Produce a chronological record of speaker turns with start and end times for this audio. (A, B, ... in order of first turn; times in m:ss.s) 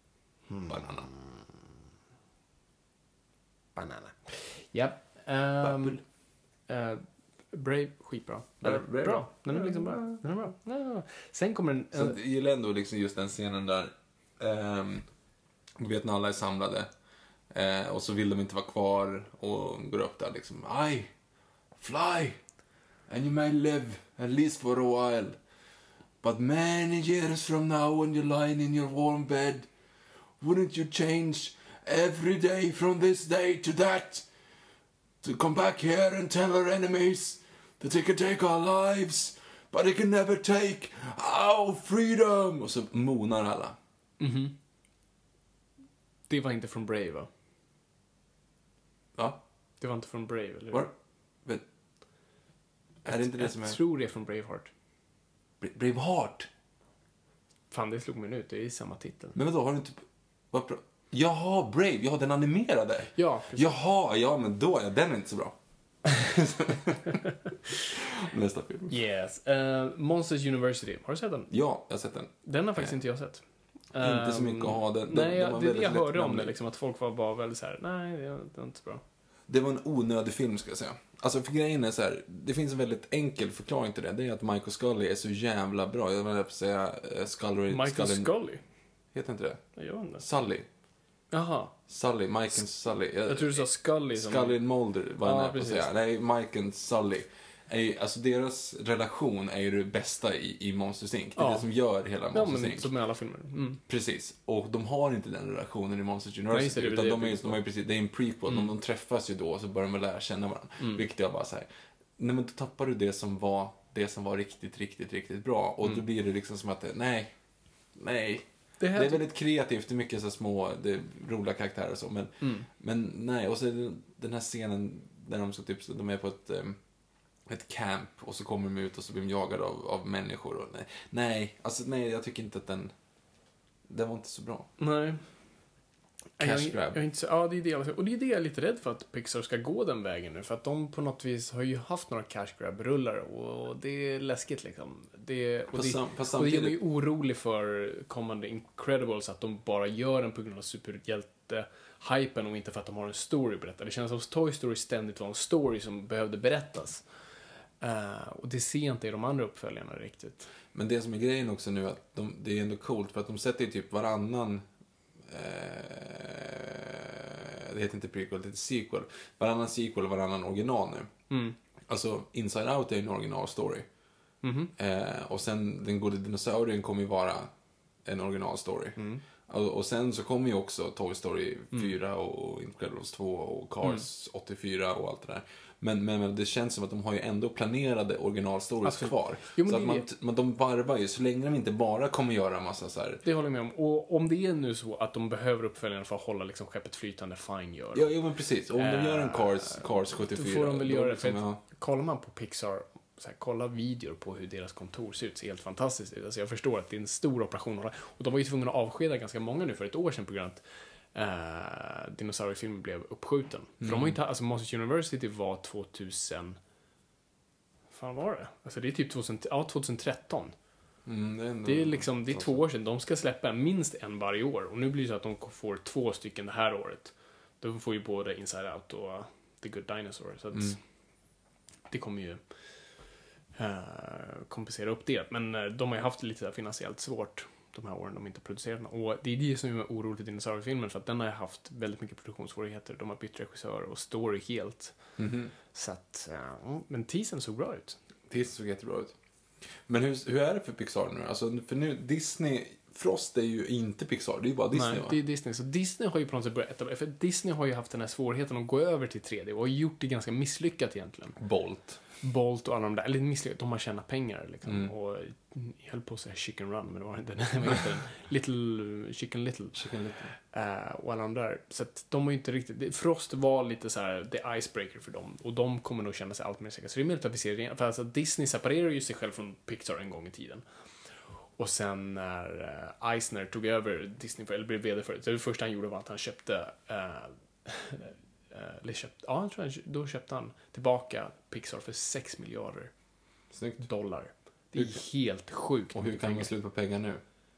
0:00.5-0:01.6 A
0:00.7-0:01.1 B
0:03.8-0:06.0 A
0:05.6-0:06.0 B
0:06.7-0:12.2 A
0:08.6-0:10.2 B
0:11.9-0:15.1 B
0:15.8-0:16.9 B
0:17.5-0:21.1 B
0:21.8-0:22.4 B
0:23.1-0:25.4 B
0:26.2-0:29.7 B
0:30.4-0:34.2 B
0:35.2-0:43.8 B
0:44.2-0:44.5 A
0:46.3-0:47.3 A
0:49.8-0:50.9 A
0:53.0-0:53.8 B
0:53.1-0:54.7 A
0:55.6-0:56.5 B
0:57.7-0:59.4 A
0:59.4-1:07.2 B
1:03.2-1:03.7 A
1:07.9-1:09.0 B
1:08.9-1:11.5 A
1:11.5-1:12.9 B
1:12.4-1:19.0 A
1:14.0-1:16.5 B
1:19.5-1:28.3 B
1:27.7-1:28.6 A
1:29.1-1:29.6 B
1:29.8-1:30.2 A
1:30.1-1:30.7 B
1:31.3-1:31.7 A
1:31.9-1:42.9 B
1:33.3-1:34.6 A
1:35.2-1:35.9 A
1:41.4-1:41.7 A
1:42.3-1:43.8 A
1:43.9-1:51.7 B
1:46.5-1:47.6 A
1:52.2-1:57.3 B
1:58.0-2:06.8 B
1:58.8-1:59.2 A
2:02.4-2:02.7 A
2:07.5-2:12.9 B
2:13.9-2:14.7 B
2:14.8-2:15.2 A
2:16.4-2:37.0 A
2:16.4-2:17.0 B
2:25.7-2:26.8 B
2:37.8-2:40.5 A
2:40.7-2:44.6 B
2:45.3-2:51.1 B
2:51.3-2:51.6 A
2:51.9-2:53.9 B
2:54.4-2:54.7 A
2:54.8-2:57.5 B
2:58.0-3:13.2 B
2:59.0-2:59.2 A
3:08.8-3:10.1 A
3:13.2-3:18.1 A
3:17.9-3:21.6 B
3:18.7-3:30.6 A
3:31.1-3:36.6 A
3:33.8-3:34.2 B
3:37.9-3:40.5 A
3:41.0-3:42.6 B
3:41.6-3:50.8 A
3:51.9-3:52.4 A
3:53.5-4:04.9 A
4:05.2-4:05.5 B
4:05.7-4:08.0 A
4:08.3-4:09.1 B
4:09.9-4:15.2 B
4:14.7-4:21.4 A
4:21.4-4:22.0 B
4:22.2-4:29.8 A
4:24.6-4:24.9 B
4:29.7-4:30.3 B
4:30.5-4:40.6 A
4:41.6-4:52.9 A
4:53.5-4:53.9 B
4:53.8-4:56.5 A
4:54.7-4:55.0 B
4:55.9-4:57.2 B